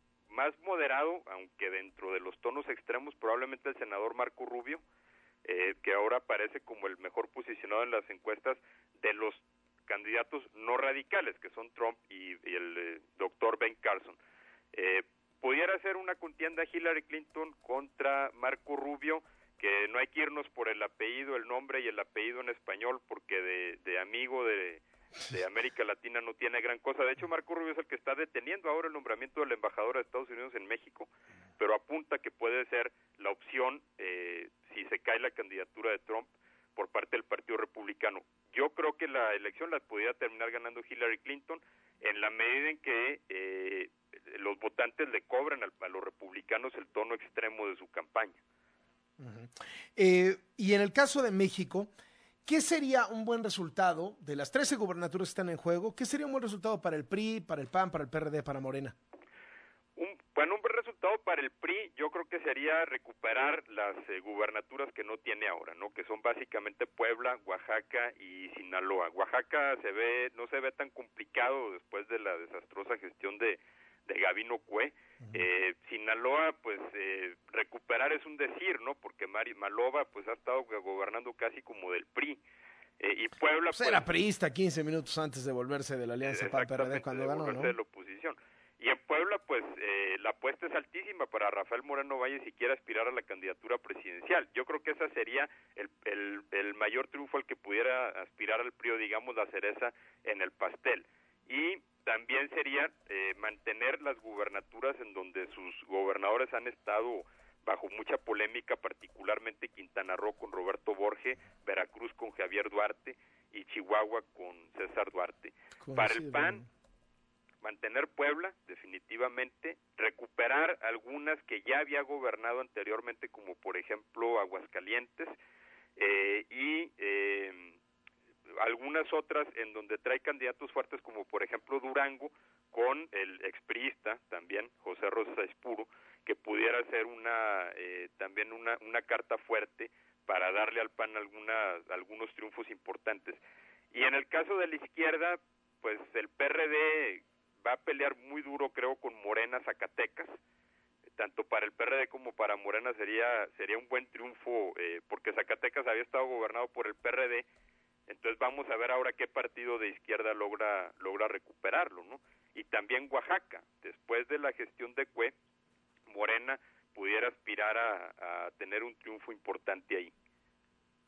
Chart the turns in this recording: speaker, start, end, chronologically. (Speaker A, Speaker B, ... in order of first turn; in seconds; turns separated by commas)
Speaker A: 0.3-4.8, Speaker A: 5.4-14.2, Speaker A: 14.7-48.4, Speaker B: 49.2-51.9, Speaker B: 52.4-58.9, Speaker A: 60.0-82.4, Speaker A: 83.0-84.1, Speaker B: 83.7-87.7, Speaker A: 86.2-116.7, Speaker B: 115.8-116.7, Speaker A: 117.6-125.3, Speaker A: 126.0-127.8, Speaker A: 128.6-150.4, Speaker A: 151.1-157.4, Speaker A: 158.1-165.3, Speaker A: 166.1-170.1